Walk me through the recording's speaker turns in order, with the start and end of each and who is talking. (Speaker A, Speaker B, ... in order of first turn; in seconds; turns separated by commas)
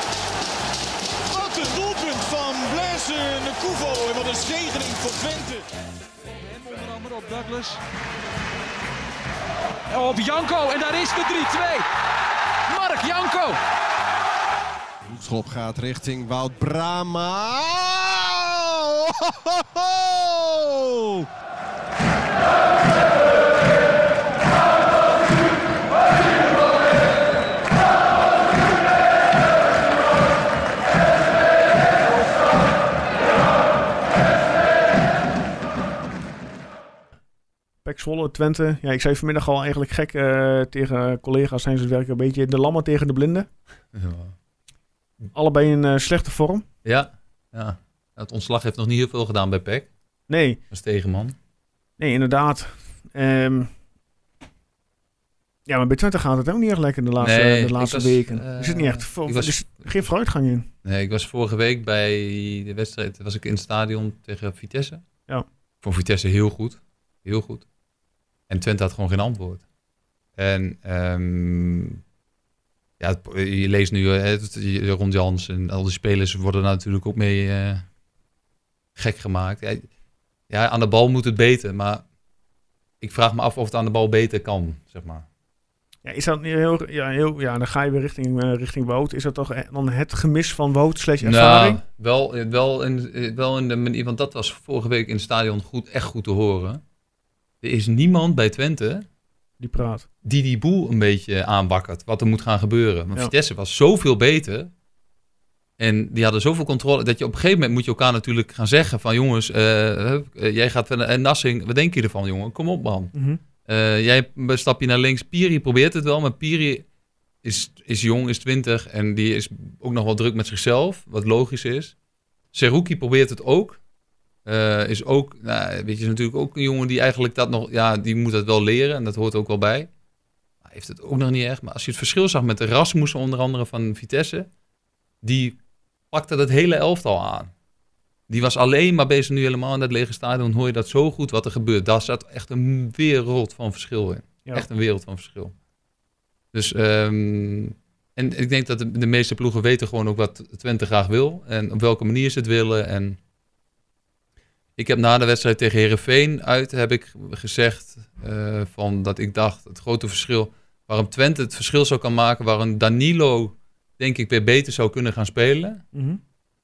Speaker A: 1.3-5.7, Speaker B: 6.4-7.8, Speaker B: 9.9-11.9, Speaker B: 12.7-13.6, Speaker C: 15.1-21.2, Speaker D: 37.8-43.5, Speaker E: 43.9-44.3, Speaker D: 45.3-46.6, Speaker E: 46.8-49.9, Speaker D: 50.3-50.6, Speaker E: 50.7-51.3, Speaker D: 52.0-53.7, Speaker D: 55.7-60.7, Speaker E: 57.2-60.0, Speaker E: 60.8-65.0, Speaker E: 65.8-67.7, Speaker E: 68.5-69.6, Speaker E: 70.4-72.0, Speaker E: 73.0-77.8, Speaker E: 79.0-79.8, Speaker E: 80.5-82.0, Speaker E: 83.0-85.2, Speaker D: 86.0-91.8, Speaker E: 91.2-96.8, Speaker E: 97.6-99.0, Speaker D: 99.6-100.1, Speaker E: 100.2-104.7, Speaker E: 105.8-113.1, Speaker D: 113.1-113.4, Speaker E: 113.7-116.8, Speaker E: 117.4-122.0, Speaker E: 122.5-123.8, Speaker E: 124.5-129.9, Speaker E: 130.6-134.5, Speaker E: 135.2-135.6, Speaker E: 136.1-137.5, Speaker E: 138.3-145.5, Speaker E: 146.5-153.2, Speaker E: 154.8-165.8, Speaker D: 165.9-166.2